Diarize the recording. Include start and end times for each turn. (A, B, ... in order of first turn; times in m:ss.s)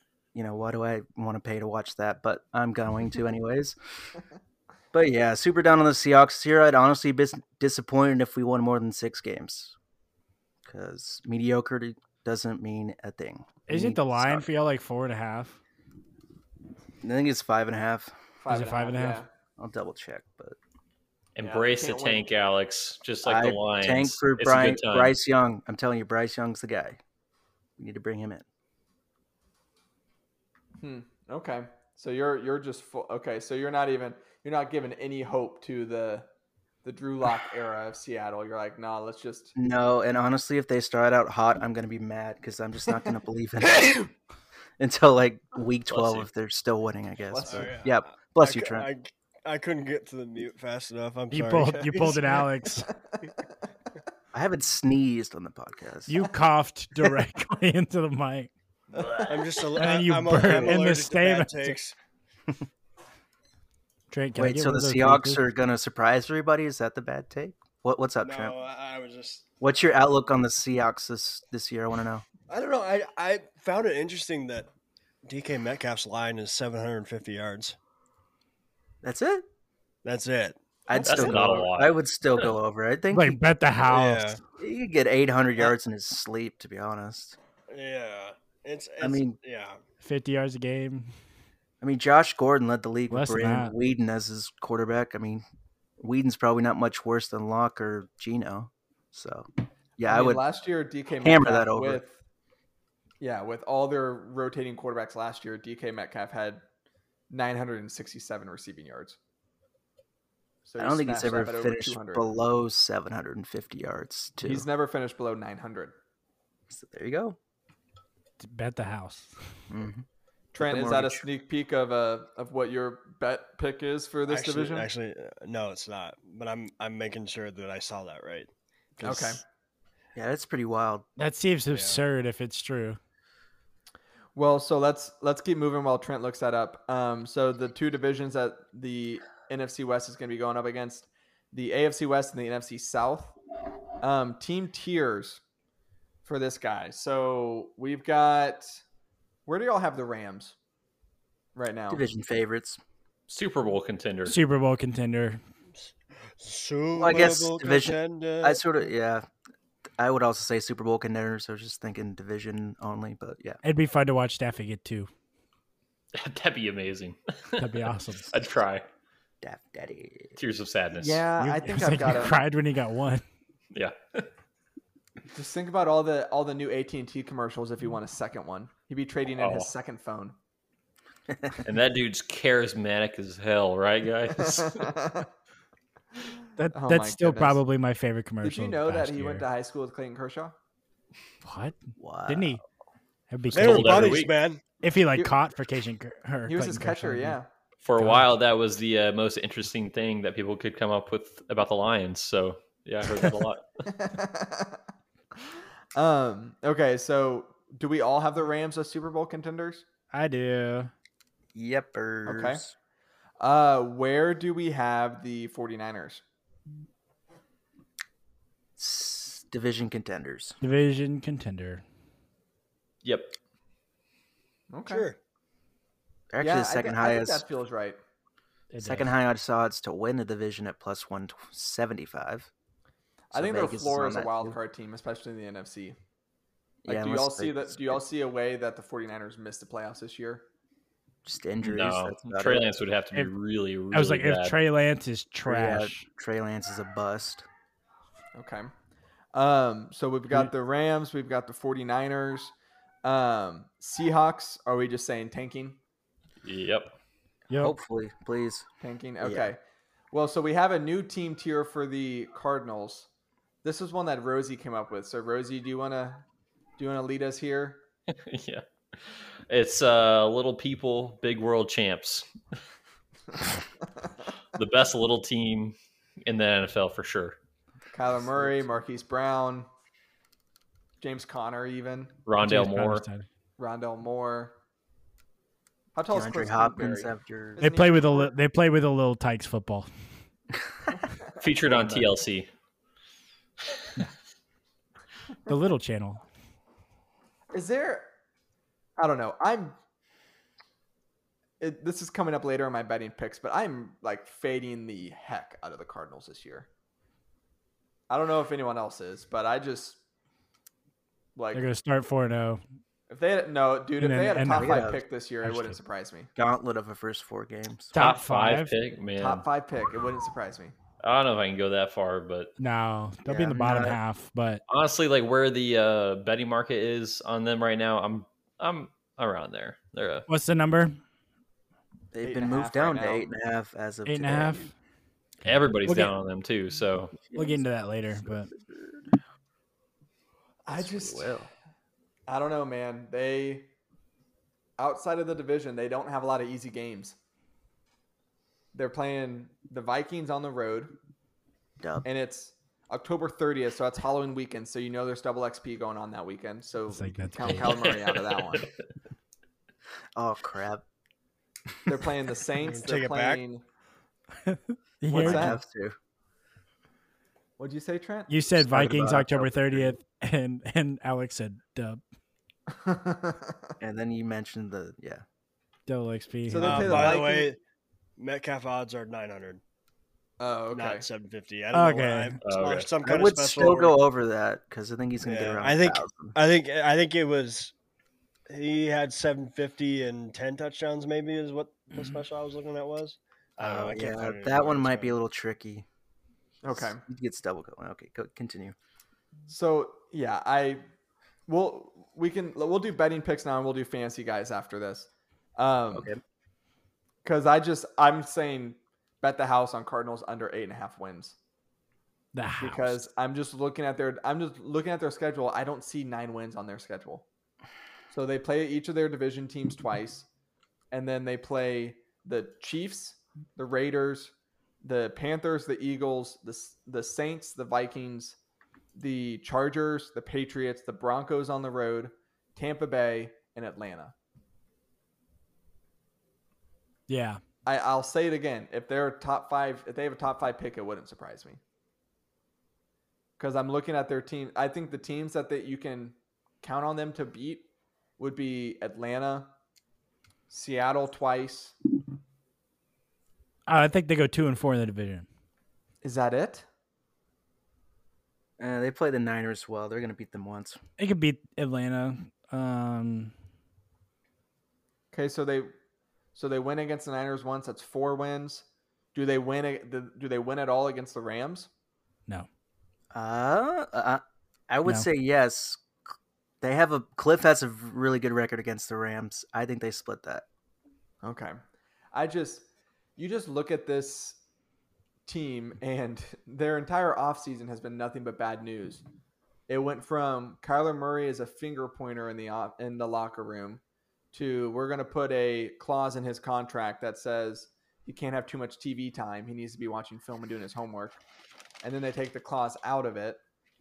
0:00.3-0:03.8 A
0:04.9-0:09.8 A
0:10.7-0:14.5 A
0:13.7-0:15.6 B
0:17.0-0:18.2 A
0:18.4-0:19.3 C
0:18.5-0:19.2 B
0:19.6-0:20.6 A
0:21.4-0:25.1 D
0:21.4-0:22.3 C
0:23.2-0:27.0 A
0:27.8-0:28.4 A
0:30.8-0:36.3 C
0:36.8-0:39.5 C
0:39.6-0:44.1 A
0:43.7-0:44.1 E
0:44.8-0:48.9 A
0:45.9-0:46.3 D
0:47.3-0:47.9 C
0:47.5-0:52.5 E
0:51.3-0:52.9 B
0:54.3-0:56.1 A
0:56.1-0:58.5 B
0:59.0-0:59.4 C
0:59.2-1:02.0 E
0:59.8-1:01.8 B
1:04.1-1:05.4 B
1:04.4-1:08.6 A
1:08.2-1:09.6 E
1:09.6-1:12.2 A
1:12.5-1:14.7 E
1:15.2-1:17.8 E
1:19.0-1:19.4 A
1:20.0-1:20.6 E
1:20.9-1:23.4 A
1:20.9-1:21.6 C
1:21.0-1:22.0 D
1:23.1-1:24.4 B
1:23.8-1:24.4 E
1:24.6-1:27.4 A
1:27.7-1:29.8 E
1:29.0-1:29.4 A
1:30.0-1:31.1 B
1:31.8-1:35.4 A
1:33.1-1:33.7 B
1:36.0-1:40.4 A
1:40.0-1:42.2 C
1:41.2-1:42.0 A
1:43.2-1:46.6 C
1:47.3-1:49.2 C
1:50.6-1:52.3 C
1:50.8-1:54.7 A
1:54.4-1:56.0 C
1:56.7-1:57.4 A
1:58.4-1:59.4 B
1:59.7-2:00.1 A
2:00.5-2:04.9 C
2:00.6-2:01.3 A
2:04.3-2:08.5 E
2:09.0-2:09.4 A
2:09.0-2:09.4 C
2:10.2-2:11.1 A
2:11.2-2:13.0 B
2:11.7-2:12.0 E
2:14.4-2:23.4 C
2:24.0-2:25.4 C
2:26.2-2:28.8 C
2:29.5-2:30.6 C
2:31.6-2:32.0 C
2:31.9-2:32.8 A
2:33.3-2:34.4 D
2:34.3-2:35.4 B
2:35.8-2:38.6 E
2:37.0-2:39.3 A
2:40.0-2:43.6 A
2:43.6-2:45.1 B
2:46.2-2:48.9 D
2:47.6-2:48.3 B
2:49.4-2:50.4 A
2:50.4-2:51.3 D
2:51.0-2:52.4 C
2:51.4-2:53.2 B
2:53.7-2:54.3 D
2:55.3-3:00.4 C
2:59.4-2:59.7 D
3:01.6-3:04.9 D
3:04.4-3:05.3 C
3:06.6-3:09.5 B
3:06.7-3:07.6 C
3:08.4-3:10.6 C
3:11.4-3:12.6 B
3:12.0-3:12.6 A
3:13.3-3:14.2 B
3:13.5-3:14.3 D
3:13.5-3:14.6 E
3:14.8-3:17.4 B
3:16.5-3:17.5 C
3:17.8-3:23.8 D
3:18.0-3:18.3 B
3:23.9-3:24.8 C
3:25.4-3:29.8 C
3:30.1-3:30.9 B
3:31.5-3:32.7 A
3:32.3-3:32.6 C
3:33.4-3:36.2 C
3:38.8-3:40.6 A
3:40.6-3:41.8 B
3:43.0-3:43.3 D
3:44.7-3:45.1 C
3:44.9-3:45.2 E
3:46.3-3:47.4 A
3:46.4-3:48.0 C
3:48.7-3:49.1 B
3:48.8-3:52.5 A
3:53.3-3:54.6 A
3:53.3-3:56.0 C
3:56.8-3:58.0 A
3:56.9-4:00.4 C
4:01.2-4:02.7 A
4:01.6-4:04.6 D
4:03.9-4:06.0 B
4:05.5-4:07.4 A
4:08.3-4:08.7 C
4:09.3-4:12.5 C
4:13.0-4:15.8 C
4:16.4-4:16.9 D
4:17.5-4:17.8 B
4:17.6-4:18.7 A
4:18.8-4:19.6 C
4:19.2-4:19.5 A
4:20.1-4:23.1 C
4:23.6-4:26.2 C
4:26.8-4:27.8 C
4:28.1-4:32.3 D
4:34.5-4:37.4 D
4:37.9-4:39.7 C
4:38.3-4:38.6 A
4:41.0-4:42.1 C
4:42.3-4:43.1 D
4:42.4-4:43.3 B
4:43.6-4:44.5 C
4:46.0-4:48.3 C
4:46.1-4:47.6 A
4:47.6-4:49.9 B
4:51.4-4:52.5 D
4:51.7-4:52.1 A
4:55.5-4:56.2 B
4:57.5-4:58.1 C
4:59.0-4:59.8 C
5:01.6-5:06.7 C
5:08.1-5:10.0 C
5:11.4-5:11.6 C
5:11.5-5:12.6 B
5:13.1-5:16.3 C
5:14.0-5:14.9 B
5:14.5-5:15.0 A
5:15.4-5:15.8 B
5:16.4-5:17.9 A
5:17.9-5:18.7 B
5:18.0-5:19.4 D
5:19.2-5:20.7 C
5:21.0-5:22.5 D
5:22.6-5:24.6 B
5:23.3-5:24.0 A
5:24.7-5:30.3 D
5:30.3-5:31.0 B
5:32.1-5:34.7 A
5:32.2-5:33.3 C
5:34.1-5:34.7 B
5:35.4-5:36.1 B
5:35.4-5:37.2 D
5:37.3-5:37.6 A
5:37.3-5:38.5 B
5:40.6-5:41.4 C
5:40.7-5:41.5 A
5:42.3-5:43.7 C
5:44.8-5:47.2 C
5:48.7-5:50.9 C
5:51.8-5:52.1 A
5:52.0-5:58.7 C
5:56.9-5:57.8 B
5:57.7-5:58.7 D
6:00.2-6:00.8 A
6:01.9-6:03.6 C
6:02.6-6:03.4 E
6:04.5-6:05.6 B
6:05.1-6:05.6 C
6:05.1-6:06.0 A
6:07.6-6:08.3 C
6:08.3-6:12.0 B
6:08.6-6:09.9 A
6:12.7-6:13.6 C
6:13.8-6:15.2 A
6:15.9-6:17.2 B
6:16.5-6:17.5 C
6:16.6-6:17.6 E
6:18.2-6:19.6 E
6:20.4-6:21.1 C
6:20.7-6:24.0 E
6:21.7-6:22.4 B
6:22.4-6:22.9 D
6:23.0-6:26.4 A
6:25.2-6:27.7 E
6:28.5-6:35.2 E
6:33.6-6:35.9 A
6:36.6-6:37.0 C
6:36.6-6:38.8 A
6:39.5-6:40.8 C
6:41.5-6:46.1 C
6:45.9-6:46.2 A
6:47.2-6:51.4 C
6:52.3-6:53.0 B
6:52.6-6:57.2 C
6:58.1-7:00.3 C
7:00.9-7:08.4 C
7:09.0-7:14.1 C
7:17.1-7:17.4 B
7:17.7-7:21.6 C
7:23.4-7:27.7 C
7:28.2-7:29.5 C
7:30.5-7:31.8 C
7:33.7-7:35.3 B
7:36.0-7:36.7 C
7:38.6-7:40.8 A
7:41.0-7:43.3 B
7:45.1-7:45.7 C
7:46.4-7:51.7 C
7:53.1-7:55.8 A
7:56.6-8:00.4 A
8:01.2-8:01.6 C
8:02.1-8:02.6 C
8:03.2-8:04.4 C
8:05.3-8:09.0 C
8:09.7-8:13.8 C
8:14.3-8:21.2 C
8:21.8-8:23.4 C